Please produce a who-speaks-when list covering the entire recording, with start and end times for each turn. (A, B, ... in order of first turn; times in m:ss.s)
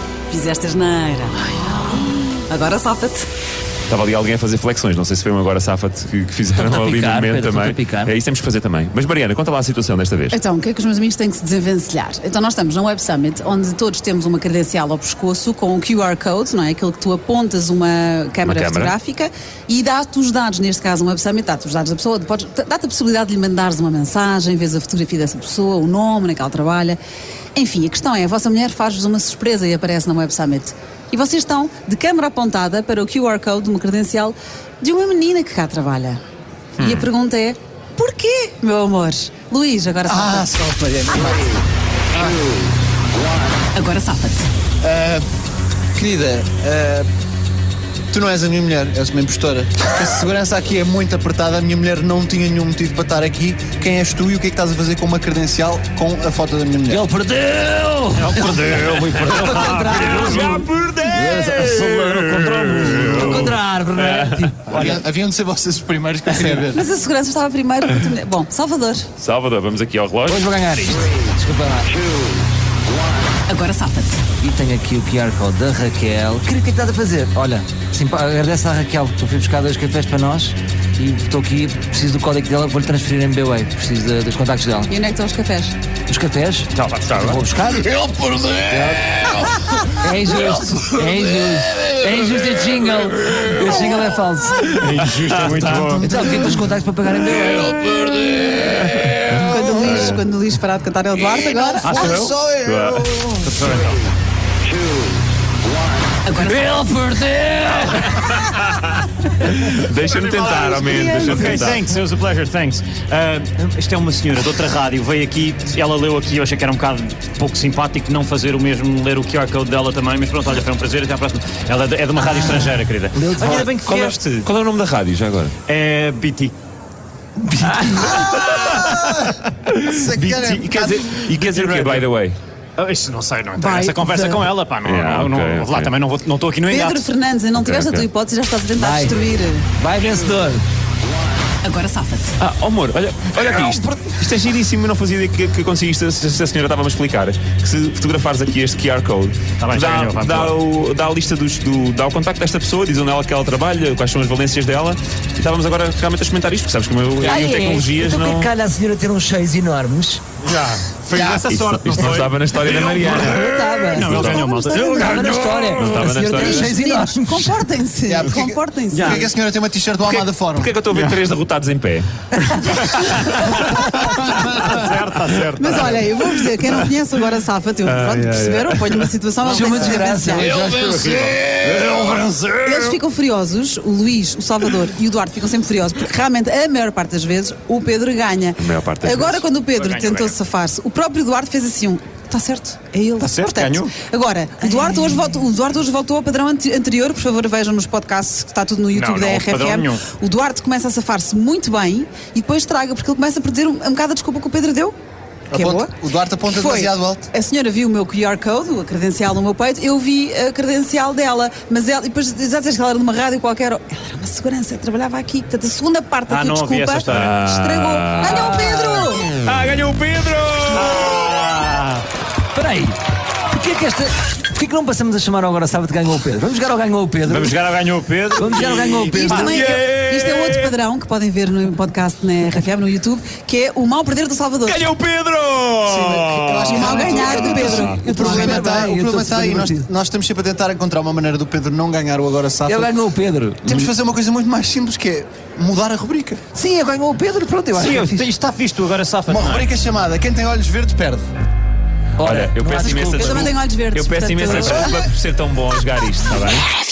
0:00.3-0:03.3 A
0:03.9-0:10.4 B
0:06.5-0:08.1 C
0:10.3-0:27.0 A
0:18.4-0:19.0 B
0:27.6-0:36.2 A
0:36.8-0:37.1 B
0:36.8-0:40.5 A
0:40.1-0:41.6 D
0:42.1-0:42.4 D
0:43.7-0:44.5 A
0:44.8-0:45.2 D
0:46.0-0:47.1 D
0:48.1-0:57.0 D
0:56.9-1:05.0 C
0:58.2-1:00.6 E
0:59.8-1:04.4 B
1:03.2-1:03.5 E
1:04.7-1:06.8 D
1:06.7-1:09.1 A
1:09.2-1:10.4 B
1:10.3-1:12.0 C
1:13.5-1:14.2 A
1:14.4-1:24.9 C
1:24.9-1:25.8 A
1:26.1-1:34.7 C
1:26.8-1:27.4 E
1:34.8-1:36.5 E
1:35.4-1:35.9 B
1:36.0-1:38.3 C
1:38.8-1:40.2 B
1:39.3-1:42.2 A
1:41.5-1:43.4 D
1:41.8-1:42.4 E
1:42.6-1:43.1 B
1:43.4-1:44.0 E
1:46.2-1:47.1 A
1:46.4-1:48.2 C
1:49.4-1:51.9 B
1:50.5-2:04.5 E
2:03.2-2:03.6 C
2:03.5-2:05.5 B
2:05.7-2:06.5 E
2:07.4-2:08.2 C
2:07.8-2:09.0 B
2:08.0-2:11.8 D
2:09.7-2:12.4 B
2:10.1-2:10.6 E
2:11.2-2:12.0 E
2:12.8-2:17.1 E
2:13.6-2:14.5 A
2:14.8-2:15.9 B
2:16.7-2:19.7 A
2:17.6-2:18.1 B
2:18.8-2:19.2 C
2:19.8-2:20.6 C
2:21.6-2:22.4 A
2:22.4-2:38.5 B
2:29.6-2:30.6 E
2:37.2-2:40.2 C
2:40.4-2:45.6 E
2:41.1-2:41.5 D
2:41.5-2:43.5 B
2:43.2-2:47.6 C
2:43.6-2:45.2 A
2:44.0-2:44.5 B
2:45.6-2:46.7 B
2:46.4-2:49.3 A
2:48.1-2:50.8 D
2:48.9-2:49.3 E
2:50.0-2:52.1 B
2:52.7-2:53.4 A
2:53.1-2:53.6 B
2:53.7-2:56.0 E
2:55.6-3:00.6 A
2:58.1-2:59.0 B
2:59.4-3:01.3 C
3:00.4-3:02.4 E
3:02.5-3:25.0 A
3:08.6-3:09.4 B
3:09.7-3:10.3 E
3:13.2-3:14.0 E
3:18.9-3:20.0 E
3:25.5-3:27.3 D
3:25.5-3:25.9 A
3:26.4-3:39.3 A
3:36.3-3:37.4 E
3:37.1-3:38.7 B
3:39.4-3:41.2 B
3:39.4-3:42.0 E
3:42.5-3:43.0 C
3:43.5-3:47.6 C
3:47.3-3:49.6 E
3:48.4-3:49.6 C
3:49.0-3:54.9 A
3:49.5-3:50.7 B
3:54.6-3:57.9 B
3:55.9-3:57.5 D
3:56.4-3:59.9 C
3:56.6-3:58.8 A
3:58.1-4:02.9 D
4:02.7-4:03.9 C
4:03.6-4:06.4 D
4:06.5-4:08.3 C
4:07.8-4:09.7 E
4:09.3-4:11.3 D
4:12.2-4:13.5 C
4:12.2-4:16.8 B
4:12.8-4:15.0 A